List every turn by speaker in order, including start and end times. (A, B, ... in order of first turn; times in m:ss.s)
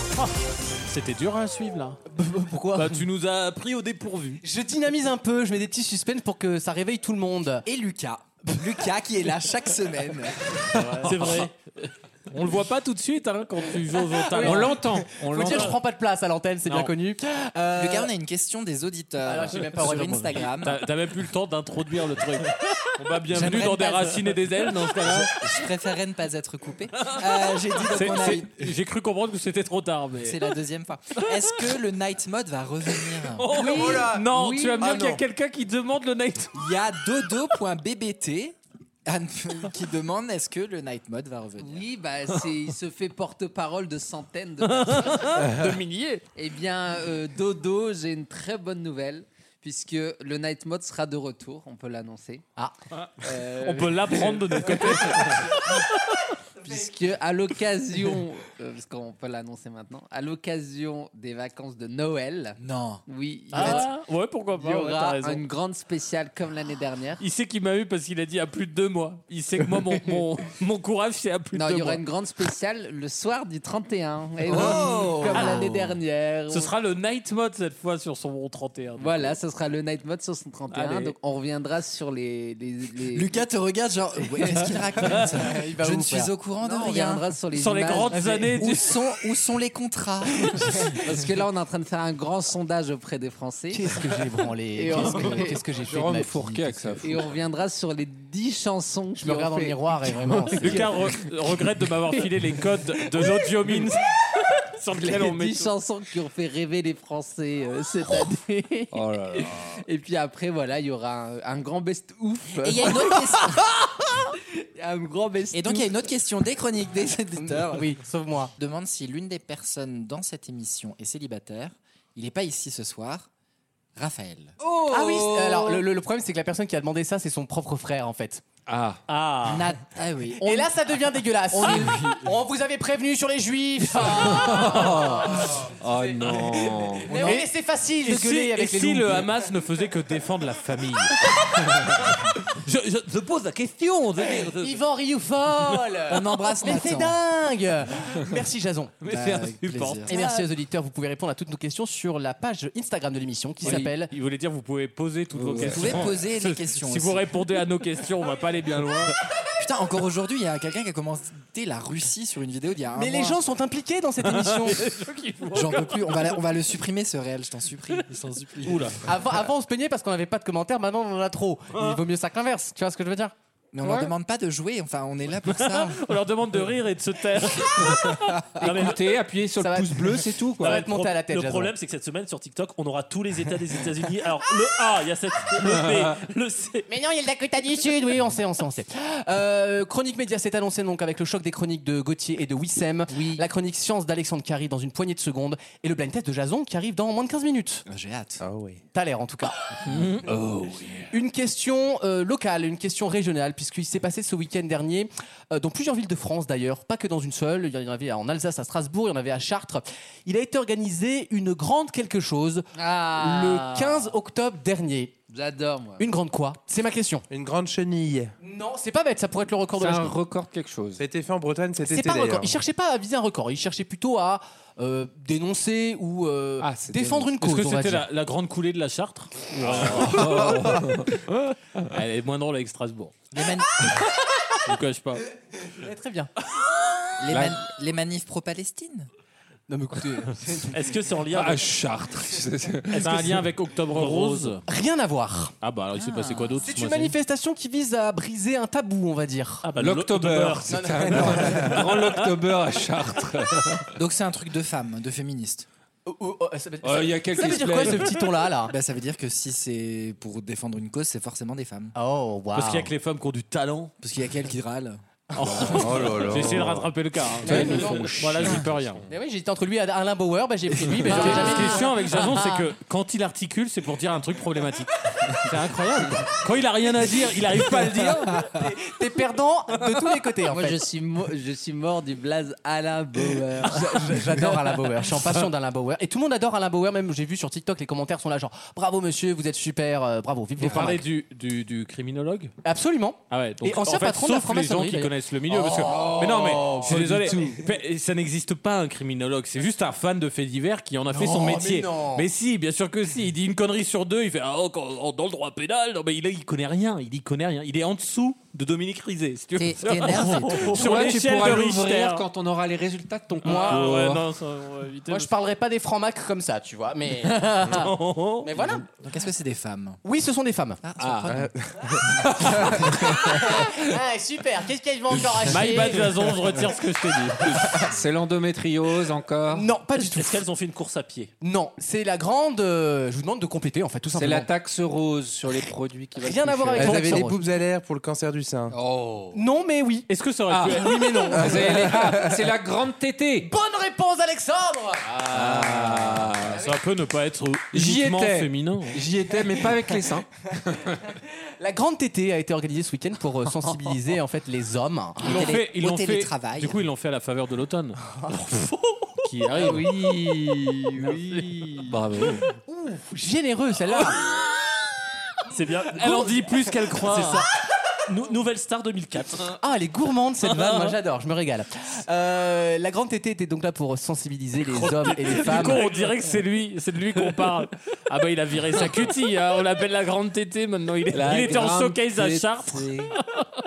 0:00.9-0:02.0 A
0:02.0-0:03.0 B
0:02.7-0:04.4 A
0:04.4-0:07.6 B
0:07.6-0:11.2 C
0:10.8-0:11.5 A
0:12.3-0:14.8 A
0:14.2-0:18.1 B
0:14.4-0:15.8 D
0:15.4-0:15.8 A
0:16.7-0:16.9 A
0:17.8-0:20.9 C
0:19.2-0:20.5 B
0:20.5-0:25.3 A
0:23.3-0:24.2 C
0:25.0-0:28.8 C
0:27.7-0:30.6 A
0:30.2-0:33.6 C
0:31.2-0:31.4 A
0:33.4-0:36.5 A
0:33.5-0:35.0 E
0:33.9-0:34.2 F
0:36.5-0:41.9 C
0:41.6-0:45.3 E
0:44.7-0:46.2 A
0:46.4-0:52.5 E
0:53.2-0:55.2 E
0:53.6-0:55.9 A
0:56.6-1:03.9 E
1:02.6-1:03.0 C
1:03.5-1:05.4 A
1:03.6-1:03.8 C
1:04.6-1:07.2 E
1:07.2-1:12.0 A
1:11.5-1:16.7 E
1:14.5-1:15.7 C
1:14.5-1:15.7 A
1:16.5-1:19.4 A
1:19.0-1:23.3 E
1:20.7-1:21.2 A
1:23.1-1:27.3 C
1:25.5-1:26.3 B
1:26.6-1:28.4 E
1:27.5-1:29.0 A
1:28.1-1:28.5 B
1:28.6-1:30.8 C
1:31.0-1:33.9 E
1:33.7-1:37.0 B
1:34.8-1:35.6 E
1:35.8-1:37.2 D
1:37.0-1:40.9 E
1:39.2-1:41.0 B
1:40.5-1:44.0 A
1:44.7-1:45.7 A
1:45.0-1:53.5 E
1:48.9-1:49.7 D
1:52.6-1:53.6 C
1:54.8-1:55.9 E
1:55.5-1:57.9 C
1:57.4-1:58.5 B
1:58.6-2:03.3 C
2:04.0-2:04.6 C
2:04.6-2:05.8 E
2:04.9-2:08.4 B
2:08.7-2:09.0 D
2:09.1-2:09.7 G
2:09.4-2:10.7 C
2:10.4-2:19.4 B
2:14.0-2:17.2 D
2:17.1-2:24.8 A
2:24.5-2:29.0 B
2:26.1-2:27.2 C
2:29.0-2:30.4 A
2:29.0-2:30.2 C
2:30.1-2:34.1 B
2:33.6-2:39.2 A
2:35.4-2:36.0 D
2:35.5-2:37.2 C
2:39.6-2:43.4 C
2:43.0-2:44.9 B
2:44.2-2:46.4 A
2:45.5-2:48.7 C
2:48.2-2:49.1 A
2:49.0-2:53.3 B
2:53.7-2:56.0 C
2:55.5-2:59.0 A
2:58.6-3:00.9 D
2:58.6-2:58.9 B
2:59.6-3:01.7 B
3:00.6-3:06.9 G
3:05.6-3:06.0 D
3:06.9-3:17.8 B
3:17.9-3:18.4 C
3:18.4-3:18.8 F
3:18.9-3:19.7 B
3:19.9-3:20.3 A
3:20.0-3:21.1 D
3:21.1-3:35.2 B
3:32.7-3:34.1 E
3:35.3-3:36.0 E
3:36.0-3:37.3 B
3:37.3-3:38.3 F
3:38.4-3:40.2 B
3:39.8-3:41.0 D
3:41.0-3:42.6 F
3:41.8-3:48.1 B
3:46.6-3:47.3 D
3:47.4-3:50.8 A
3:49.6-3:51.1 D
3:51.9-3:53.3 A
3:53.3-3:53.8 C
3:54.6-3:55.2 A
3:55.7-3:56.3 B
3:57.2-3:59.1 C
3:57.3-3:57.6 D
3:59.7-4:00.8 B
4:00.7-4:01.7 G
4:01.3-4:03.5 D
4:02.9-4:04.6 A
4:04.0-4:04.5 G
4:04.7-4:05.6 B
4:05.6-4:07.2 A
4:05.9-4:06.7 C
4:06.6-4:09.7 B
4:09.6-4:11.4 G
4:09.8-4:13.9 D
4:10.7-4:11.8 B
4:14.0-4:15.7 C
4:16.0-4:18.8 B
4:16.8-4:18.2 D
4:18.7-4:22.0 C
4:22.0-4:22.9 B
4:22.5-4:23.9 A
4:24.0-4:25.8 C
4:25.4-4:29.0 A
4:25.4-4:25.6 B
4:25.4-4:25.8 D
4:25.8-4:26.9 F
4:27.4-4:32.5 B
4:27.4-4:29.0 D
4:31.0-4:38.5 A
4:38.5-4:40.8 B
4:40.5-4:44.6 E
4:43.6-4:51.0 B
4:50.6-4:52.5 A
4:50.7-4:50.9 D
4:52.6-4:57.6 B
4:53.3-5:12.2 A
5:01.1-5:02.3 B
5:09.6-5:10.9 C
5:10.7-5:14.2 D
5:13.4-5:15.3 A
5:13.4-5:14.0 B
5:15.1-5:18.8 B
5:17.2-5:18.8 A
5:19.0-5:20.0 C
5:20.0-5:20.8 B
5:20.8-5:21.5 C
5:21.0-5:21.4 D
5:21.3-5:22.7 F
5:22.2-5:23.2 C
5:22.3-5:22.7 D
5:23.0-5:26.4 B
5:25.4-5:27.9 A
5:27.8-5:29.7 D
5:29.5-5:30.4 B
5:30.0-5:31.3 G
5:31.4-5:34.5 B
5:34.1-5:37.2 D
5:36.2-5:37.4 B
5:36.8-5:38.8 F
5:38.7-5:39.4 E
5:39.3-5:40.1 B
5:40.1-5:41.8 A
5:40.5-5:43.5 D
5:40.6-5:42.4 B
5:43.4-5:45.2 B
5:45.1-5:46.6 D
5:45.4-5:49.0 A
5:46.5-5:46.7 B
5:47.7-5:50.3 D
5:51.6-5:55.5 B
5:55.2-5:56.8 C
5:55.2-5:58.4 A
5:58.1-5:58.4 B
5:59.2-6:02.4 A
5:59.6-6:01.8 E
6:01.9-6:02.4 D
6:02.7-6:04.2 B
6:05.6-6:07.5 A
6:05.6-6:06.4 G
6:07.1-6:07.5 G
6:08.1-6:09.5 G
6:09.6-6:15.9 B
6:10.5-6:10.9 A
6:14.6-6:23.4 A
6:21.1-6:23.1 D